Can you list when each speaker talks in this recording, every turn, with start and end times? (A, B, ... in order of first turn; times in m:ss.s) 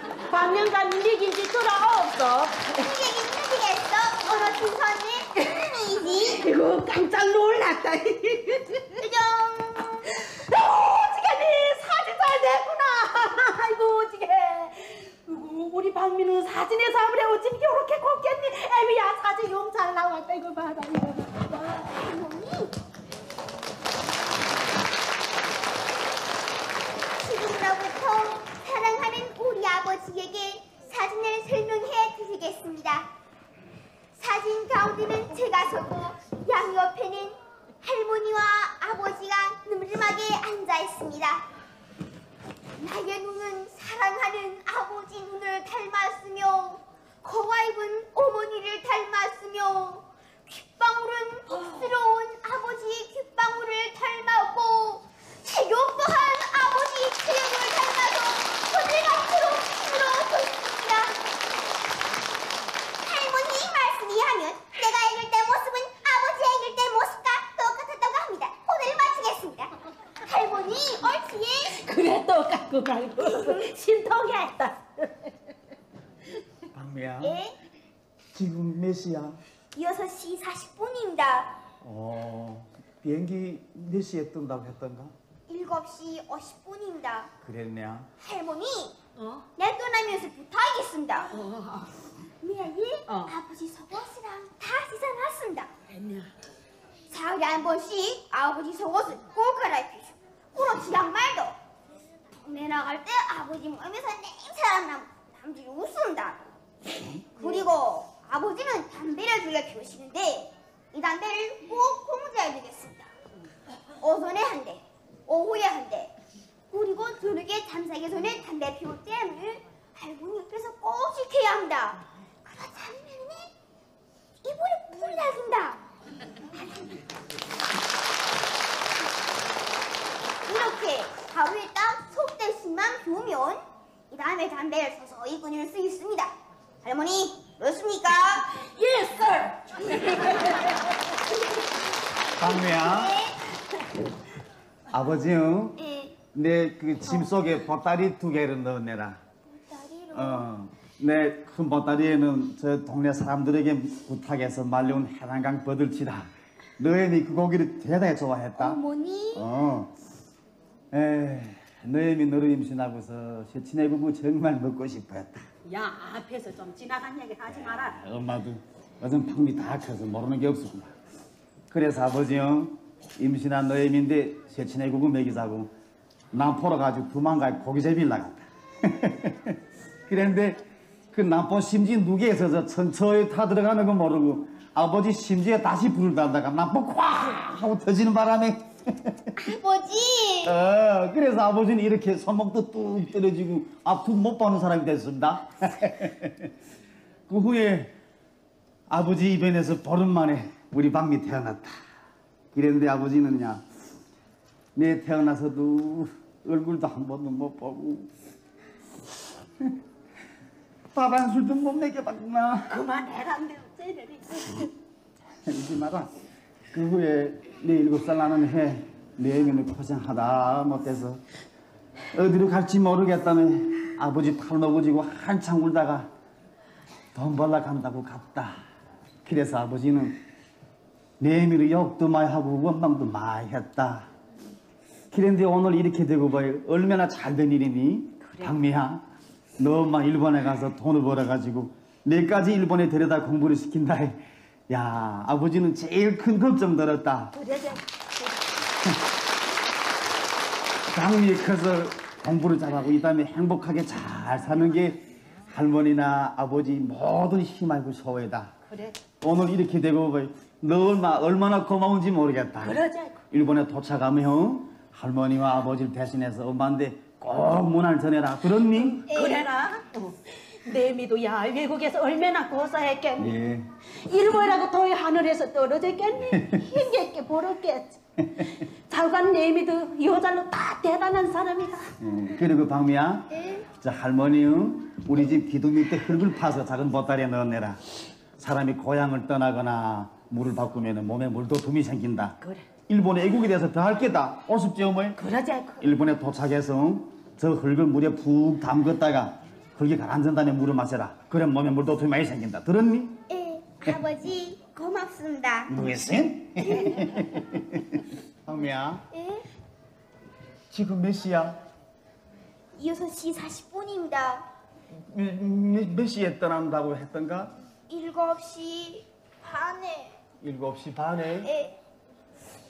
0:00.2-0:02.8 A
0:02.7-0:06.4 B
0:06.0-0:09.0 A
0:09.0-0:10.1 B
0:10.0-0:21.5 A
0:21.5-0:22.7 B
0:27.2-0:33.1 B
0:34.1-0:41.4 B
0:42.8-1:01.2 B
1:03.0-1:11.8 B
1:11.7-1:15.3 A
1:16.7-1:17.4 C
1:17.2-1:17.6 B
1:18.3-1:19.4 C
1:19.7-1:21.5 B
1:21.8-1:25.1 C
1:25.5-1:27.3 B
1:27.4-1:28.1 C
1:28.2-1:28.9 B
1:29.2-1:29.4 A
1:29.6-1:31.3 B
1:31.3-1:32.0 A
1:32.4-1:35.7 B
1:33.1-1:33.4 A
1:35.9-1:36.3 A
1:37.1-1:41.6 B
1:42.3-1:46.4 B
1:47.4-1:53.1 B
1:54.0-1:56.1 B
1:56.7-2:03.5 B
2:04.4-2:05.8 B
2:10.4-2:16.3 B
2:16.8-2:18.4 B
2:18.4-2:21.1 A
2:22.4-2:23.1 C
2:22.4-2:23.4 B
2:24.9-2:25.8 C
2:25.8-2:26.2 B
2:26.3-2:29.2 C
2:29.5-2:30.5 B
2:30.1-2:38.8 C
2:38.6-2:39.5 B
2:39.3-2:39.9 C
2:40.9-2:45.5 C
2:45.6-2:48.0 A
2:47.5-2:50.9 C
2:51.7-2:55.7 C
2:56.3-2:59.6 C
3:00.1-3:00.6 C
3:01.1-3:09.4 C
3:09.4-3:10.6 B
3:10.4-3:16.5 C
3:17.3-3:17.9 C
3:18.9-3:21.8 C
3:22.5-3:23.6 C
3:24.8-3:28.1 C
3:30.9-3:32.7 C
3:32.7-3:34.7 A
3:35.4-3:36.1 C
3:36.7-3:41.2 C
3:42.1-3:46.1 C
3:47.1-3:48.5 C
3:49.2-3:50.2 C
3:51.2-3:54.1 C
3:55.1-3:59.0 C
3:58.2-3:58.5 A
3:59.6-4:07.3 C
4:07.3-4:08.3 A
4:10.9-4:15.0 C
4:15.5-4:18.5 C
4:18.7-4:18.9 A
4:19.2-4:29.0 C
4:22.6-4:23.2 A
4:28.8-4:33.3 A
4:29.1-4:29.5 B
4:33.2-4:33.7 C
4:34.0-4:41.9 A
4:36.3-4:36.6 C
4:38.2-4:38.5 C
4:42.0-4:47.8 C
4:43.3-4:43.6 B
4:48.4-4:52.4 C
4:52.9-4:55.2 C
4:55.2-4:55.8 A
4:55.8-5:03.2 C
5:03.3-5:05.7 B
5:05.7-5:09.0 C
5:09.1-5:09.4 B
5:10.7-5:11.6 C
5:12.8-5:14.4 B
5:14.9-5:17.5 C
5:17.9-5:20.2 B
5:20.4-5:21.5 C
5:21.4-5:21.8 B